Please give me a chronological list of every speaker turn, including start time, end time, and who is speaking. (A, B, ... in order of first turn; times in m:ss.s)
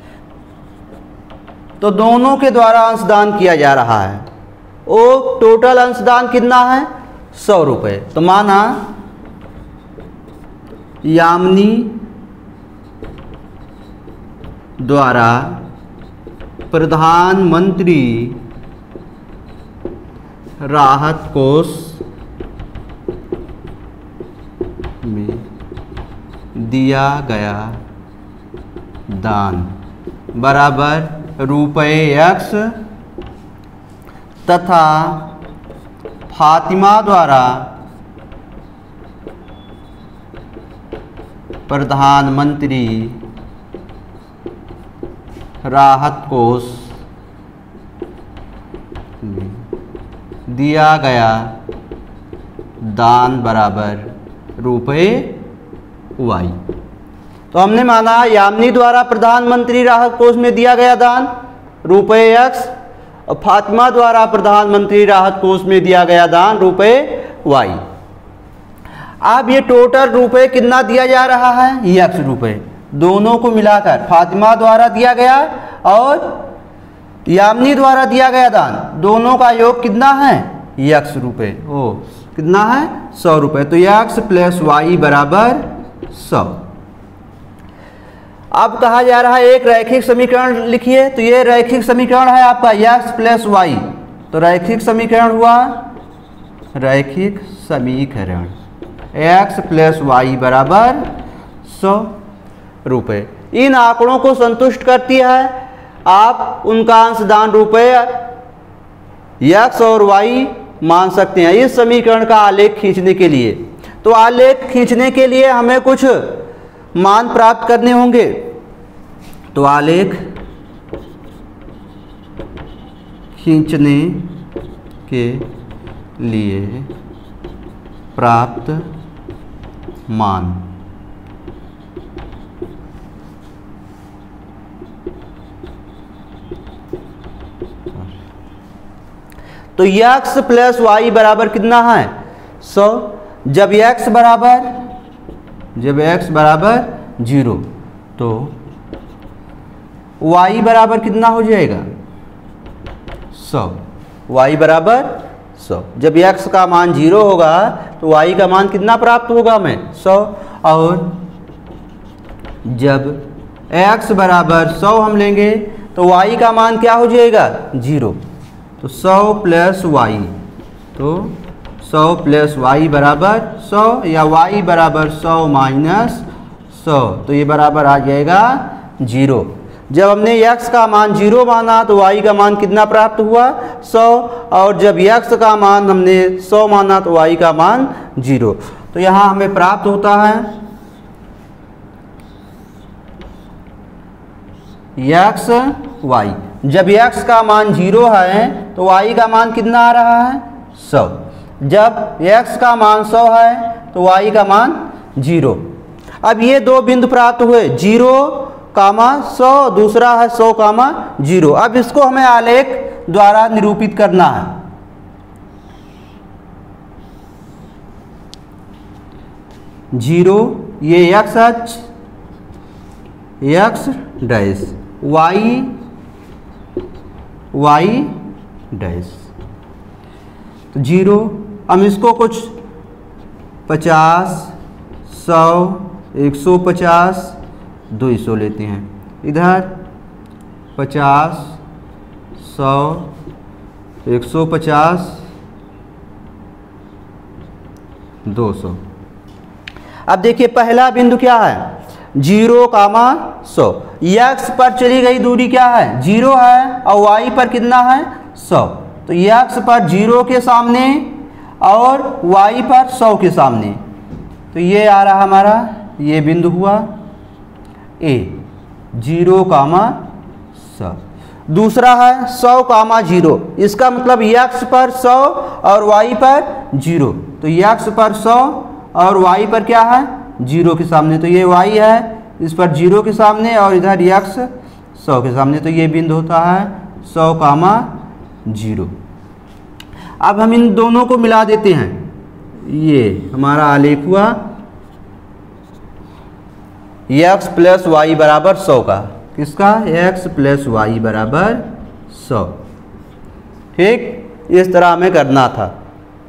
0:01.8-0:04.2 A
0:04.8-0:08.9 A
0:11.0-0:12.0 A
0:14.8-0:15.6 A
0:16.7-0:18.4 A
0:20.6-0:22.0 A
0:25.0-0:25.4 A
0:26.5-0:27.8 A
0:29.1-0:29.7 A
0:30.3-0:32.8 A
0:34.4-0:35.3 A
0:36.3-0:37.7 A
0:41.7-0:43.2 A
0:45.6-0:46.9 A
0:49.2-0:49.6 A
0:50.5-0:51.5 A
0:52.8-0:55.4 A
0:56.2-0:56.6 A
0:57.5-1:01.3 A
1:01.8-1:02.7 A
1:03.3-1:07.8 A
1:09.2-1:16.4 A
1:17.2-1:26.6 A
1:28.5-1:35.9 A
1:36.7-1:38.5 A
1:39.1-1:41.0 A
1:41.6-1:42.2 A
1:42.8-1:48.3 A
1:49.4-1:58.6 A
1:59.5-2:00.3 A
2:03.4-2:04.4 A
2:05.1-2:05.5 A
2:06.2-2:06.9 A
2:08.1-2:08.9 A
2:10.1-2:10.7 A
2:19.8-2:24.8 A
2:25.7-2:28.5 A
2:30.2-2:31.8 A
2:33.3-2:41.2 A
2:42.6-2:48.2 A
2:48.8-2:50.3 A
2:50.9-3:10.6 A
3:15.0-3:25.6 A
3:26.2-3:34.6 A
3:39.9-3:41.8 A
3:43.4-3:45.7 A
3:47.5-3:48.2 A
3:48.7-3:49.3 A
3:50.7-3:52.5 A
3:53.7-3:54.5 A
3:55.1-3:57.4 A
3:57.9-3:59.7 A
4:00.8-4:01.6 A
4:02.4-4:03.1 A
4:04.0-4:05.2 A
4:08.2-4:08.8 A
4:10.1-4:23.8 A
4:24.5-4:26.9 A
4:28.0-4:30.0 A
4:30.6-4:48.9 A
4:50.2-4:54.4 A
4:57.1-5:02.6 A
5:03.7-5:05.7 A